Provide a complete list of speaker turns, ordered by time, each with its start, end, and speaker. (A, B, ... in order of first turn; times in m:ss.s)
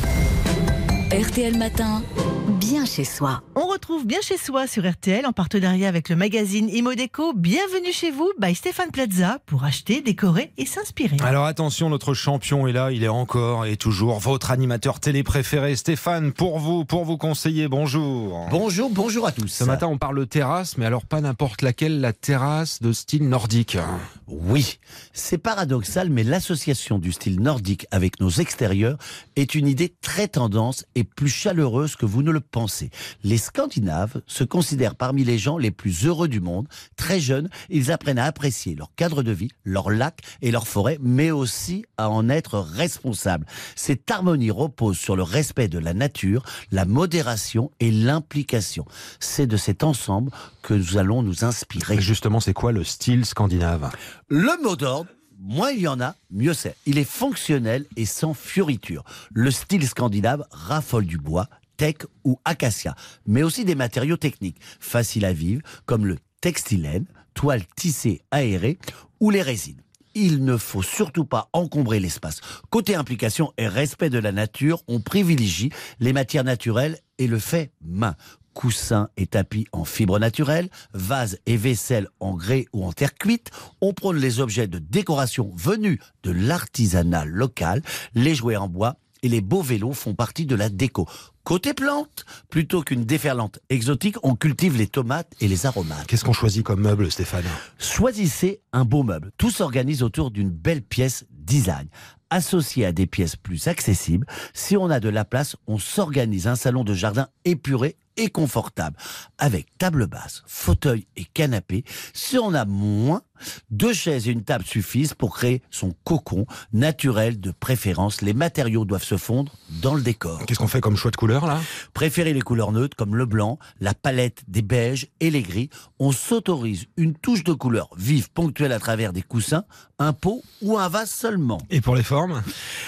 0:01.1-0:03.4 A
0:03.5-0:11.3 B
0:11.2-0:18.6 C
0:18.5-0:19.8 D
0:19.6-0:24.0 C
0:24.3-0:52.1 D
0:51.8-0:53.9 C
0:54.3-1:36.1 D
1:36.1-1:37.6 C
1:37.8-2:00.5 D
2:00.4-2:01.7 C
2:01.9-2:11.7 D
2:11.7-2:12.5 C